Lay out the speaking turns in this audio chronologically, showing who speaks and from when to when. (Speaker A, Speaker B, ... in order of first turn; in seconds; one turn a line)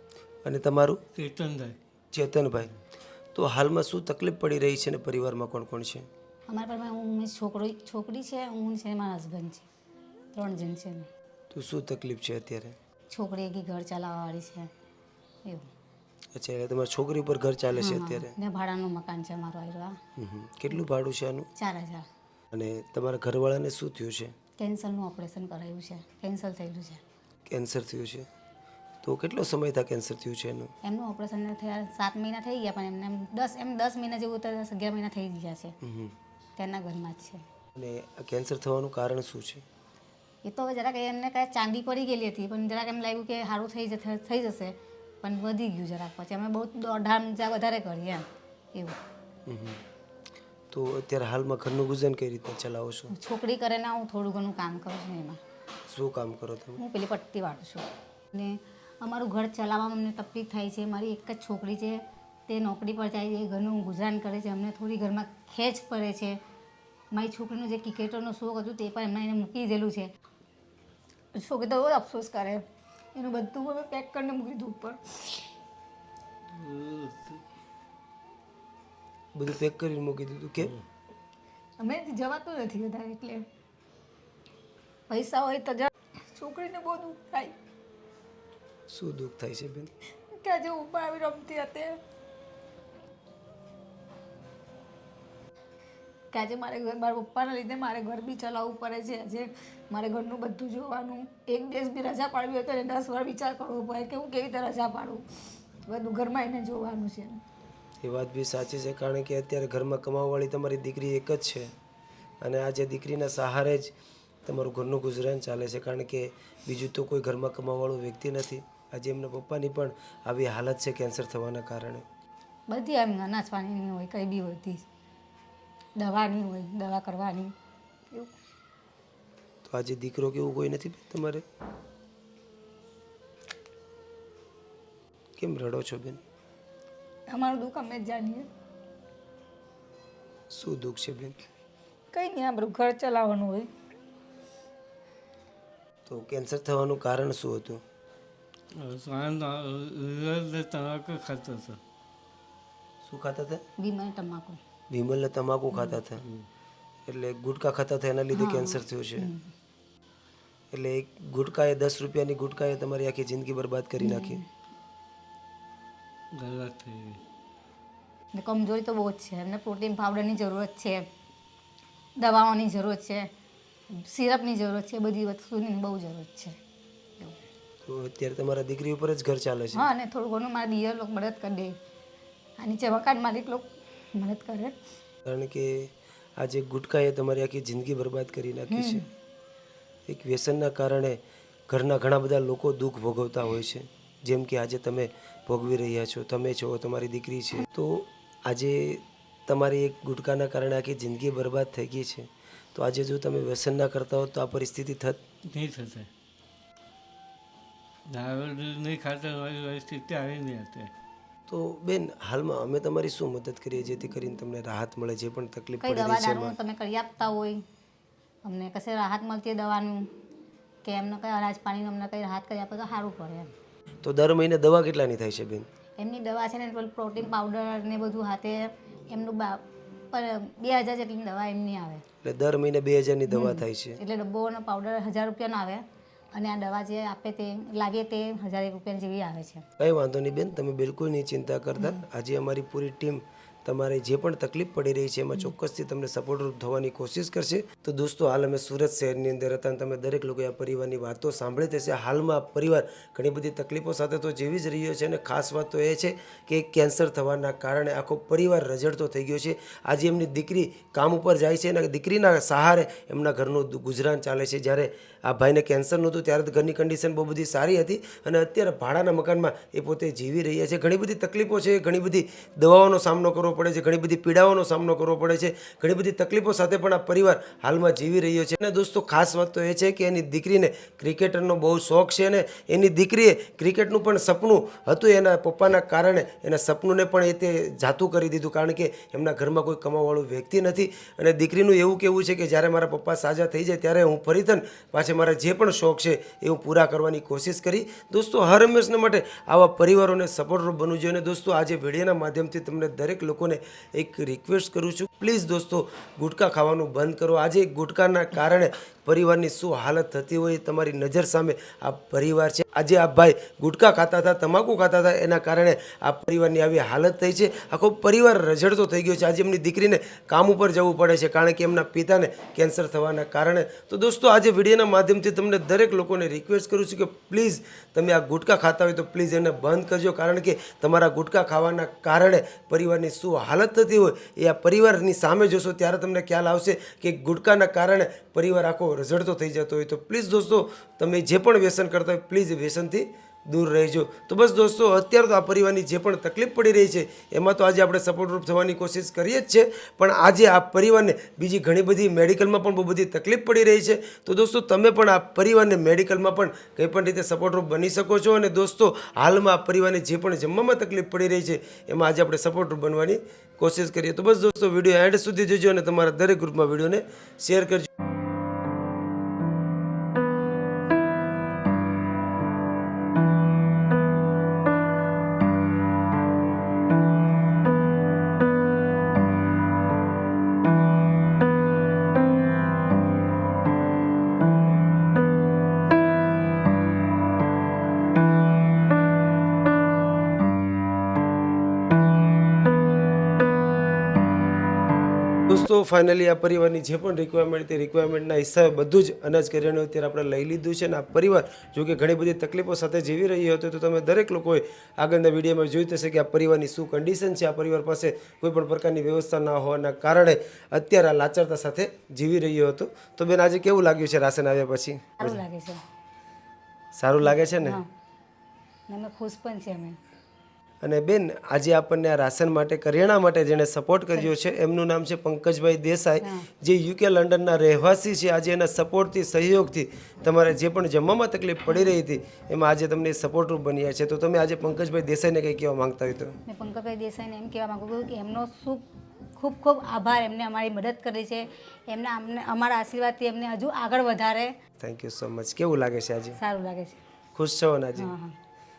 Speaker A: 0.4-1.0
Speaker B: 1.2-1.8
Speaker A: 2.1-2.7
Speaker A: 3.3-6.1
Speaker C: 6.5-9.7
Speaker C: 10.3-11.1
Speaker A: 11.5-12.8
Speaker C: 13.1-14.7
Speaker A: 16.3-18.3
Speaker C: 17.8-20.0
Speaker A: 20.2-21.5
Speaker C: 21.6-22.1
Speaker A: 22.5-24.3
Speaker C: 24.6-27.0
Speaker A: 27.5-28.3
Speaker A: 29.0-30.7
Speaker C: 30.8-35.8
Speaker A: 35.8-36.1
Speaker C: 36.6-37.5
Speaker A: 37.8-39.6
Speaker C: 40.4-49.0
Speaker A: 49.5-49.8
Speaker A: 50.7-53.1
Speaker C: 53.1-55.4
Speaker A: 55.9-56.8
Speaker C: 56.8-66.4
Speaker C: 67.1-70.1
Speaker C: 71.3-75.4
Speaker B: 76.5-77.4
Speaker A: 79.3-80.8
Speaker C: 81.8-83.4
Speaker C: 85.1-87.6
Speaker A: 88.9-89.9
Speaker C: 90.3-92.0
Speaker C: 96.3-105.2
Speaker C: 105.8-107.4
Speaker A: 108.0-111.7
Speaker A: 112.4-113.9
Speaker A: 114.5-122.0
Speaker C: 122.7-124.8
Speaker C: 126.0-127.5
Speaker A: 129.6-131.4
Speaker A: 135.4-136.2
Speaker C: 137.3-138.5
Speaker A: 140.5-141.3
Speaker C: 142.1-143.7
Speaker A: 146.1-147.8
Speaker B: 148.8-151.8
Speaker A: 153.0-153.6
Speaker C: 153.8-154.6
Speaker A: 154.9-156.2
Speaker A: 157.1-159.3
Speaker C: 158.3-159.5
Speaker A: 160.7-164.4
Speaker C: 164.0-164.4
Speaker B: 166.3-167.2
Speaker C: 168.3-171.0
Speaker C: 172.2-173.3
Speaker C: 173.9-176.6
Speaker A: 177.8-179.9
Speaker C: 179.7-181.8
Speaker C: 182.6-184.7
Speaker A: 185.2-189.1
Speaker C: 188.7-189.1
Speaker A: 190.1-205.2
Speaker B: 205.5-206.1
Speaker B: 208.1-210.9
Speaker A: 211.5-216.5
Speaker C: 215.8-217.6
Speaker C: 218.4-220.1
Speaker C: 220.8-223.5
Speaker A: 224.0-225.7
Speaker C: 226.0-232.0
Speaker A: 232.2-234.0
Speaker C: 233.3-239.6
Speaker A: 239.8-367.9
Speaker A: 395.5-415.4
Speaker C: 415.2-415.8
Speaker A: 416.9-417.8
Speaker C: 417.2-417.9
Speaker C: 418.9-420.0
Speaker A: 420.8-436.4
Speaker C: 426.2-426.5
Speaker C: 436.5-444.5
Speaker A: 444.8-446.4
Speaker C: 446.4-447.0
Speaker A: 447.4-448.1
Speaker C: 448.0-448.4